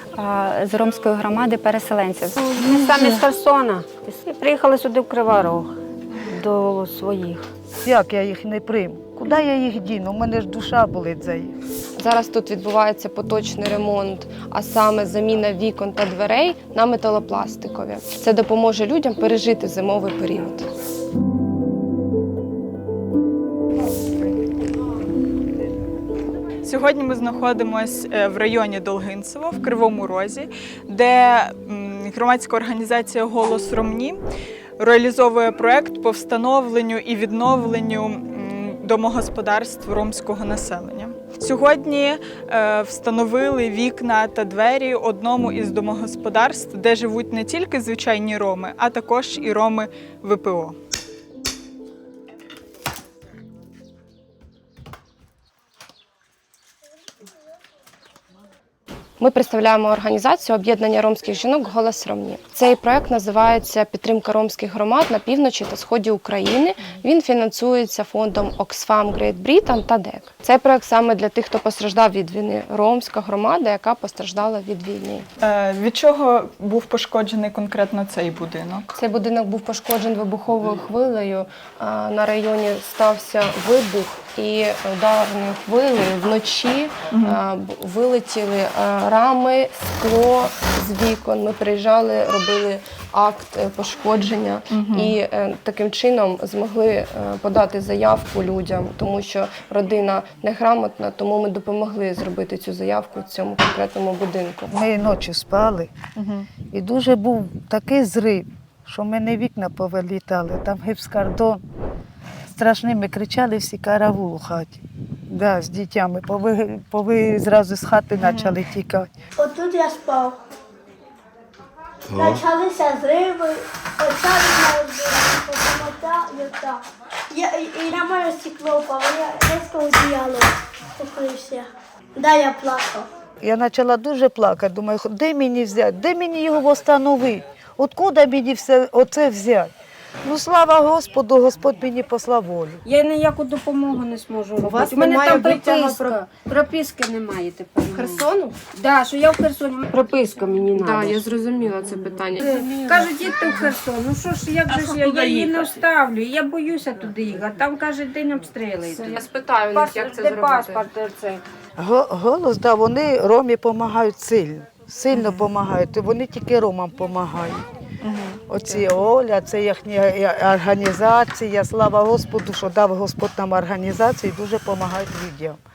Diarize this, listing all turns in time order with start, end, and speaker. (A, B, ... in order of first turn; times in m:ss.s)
0:00.2-0:03.2 A
0:02.4-0:05.7 B
0:06.2-0:07.4 B
0:07.8-0:11.6 C
0:12.0-0:20.7 D
0:26.6-0:34.2 E
0:34.8-0:50.8 E
0:59.2-1:15.3 D
1:15.4-1:18.9 E
1:18.9-1:44.8 D
1:27.1-1:27.4 E
1:34.7-1:35.2 E
1:44.7-1:45.9 C
1:46.2-1:46.5 E
1:46.7-1:51.6 C
1:52.5-1:59.1 C
1:58.2-1:58.5 E
1:59.4-2:00.4 F
2:02.1-2:13.1 F
2:13.4-2:19.7 C
2:20.2-2:22.8 C
2:22.8-2:31.2 B
2:24.6-2:25.2 C
2:24.6-2:26.2 D
2:27.9-2:28.6 D
2:30.8-2:33.7 D
2:32.4-2:41.4 B
2:34.9-2:35.5 D
2:38.8-2:40.9 D
2:41.8-2:47.7 C
2:45.1-2:45.4 E
2:48.0-2:48.4 E
2:48.5-2:55.6 C